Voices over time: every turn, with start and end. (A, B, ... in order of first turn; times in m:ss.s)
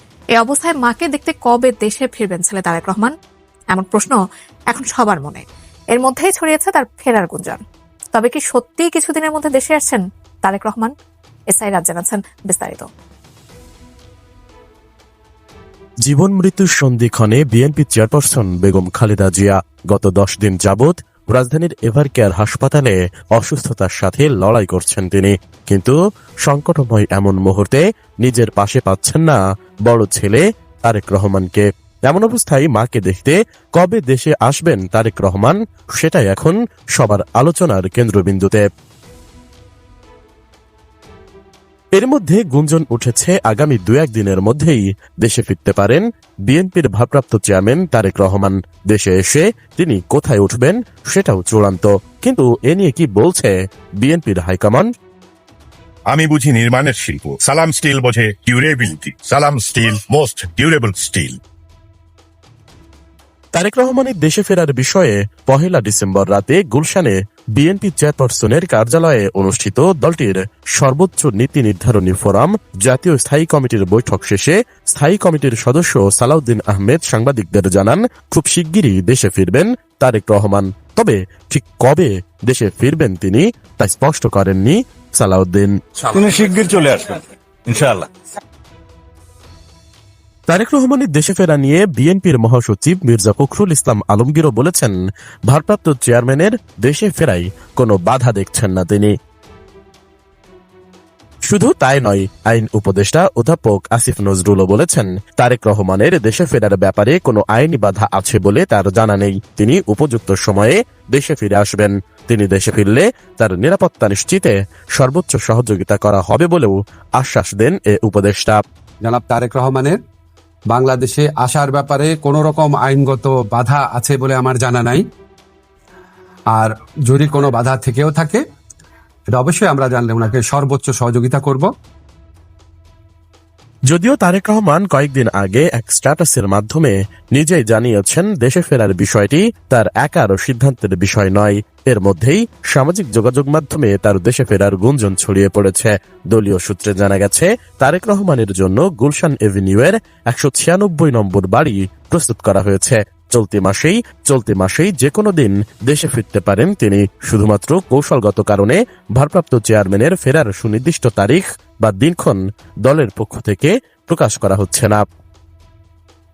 0:00.4-0:03.1 A
0:03.7-0:04.2 A
0:04.7-0:07.6 A
0:08.1-0:10.9 A
0:11.5-0:12.9 A
0:16.0-0:38.6 B
0:42.0-0:54.9 B
0:56.1-1:01.4 C
1:03.5-1:25.7 B
1:26.0-1:28.1 D
1:30.5-1:34.9 B
1:35.5-1:39.1 B
1:41.5-1:58.6 B
1:59.0-2:00.0 E
2:00.7-2:05.0 E
2:06.5-2:08.4 E
2:09.3-2:11.7 E
2:13.9-2:45.0 B